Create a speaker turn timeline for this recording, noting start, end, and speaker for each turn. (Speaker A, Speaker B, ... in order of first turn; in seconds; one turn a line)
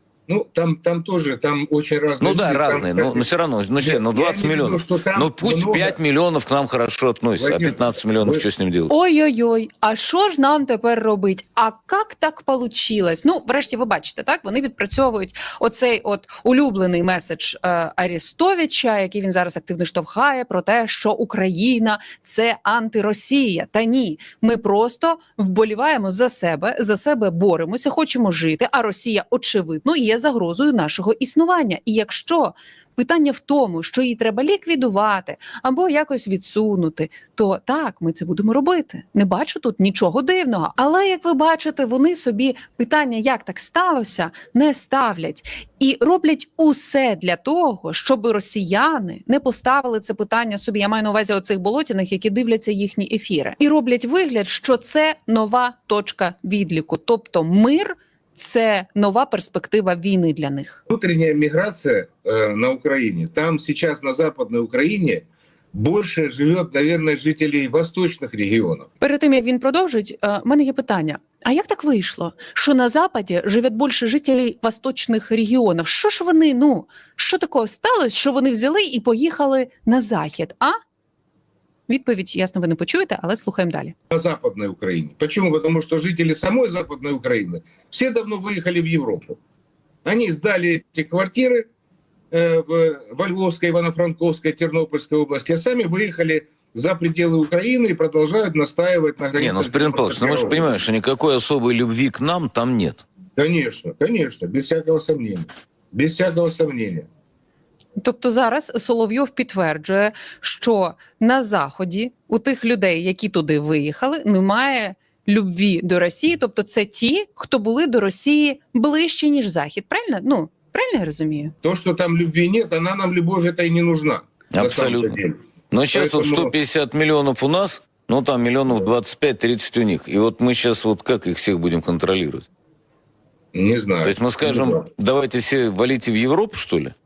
Speaker A: 0.3-3.3
Speaker B: 2.2-8.9
Speaker A: 3.8-6.0
Speaker A: 7.4-8.4
Speaker C: 8.9-60.8
Speaker A: 60.9-68.9
Speaker C: 69.0-80.8
Speaker C: 81.9-83.9
Speaker A: 84.1-89.4
Speaker A: 90.0-91.7
Speaker A: 92.3-100.7
Speaker B: 99.4-103.0
Speaker A: 103.4-107.0
Speaker C: 108.0-121.5
Speaker A: 121.6-125.4
Speaker B: 124.5-125.2
Speaker B: 125.7-132.4
Speaker A: 125.9-126.5
Speaker A: 133.5-134.8
Speaker B: 134.0-136.9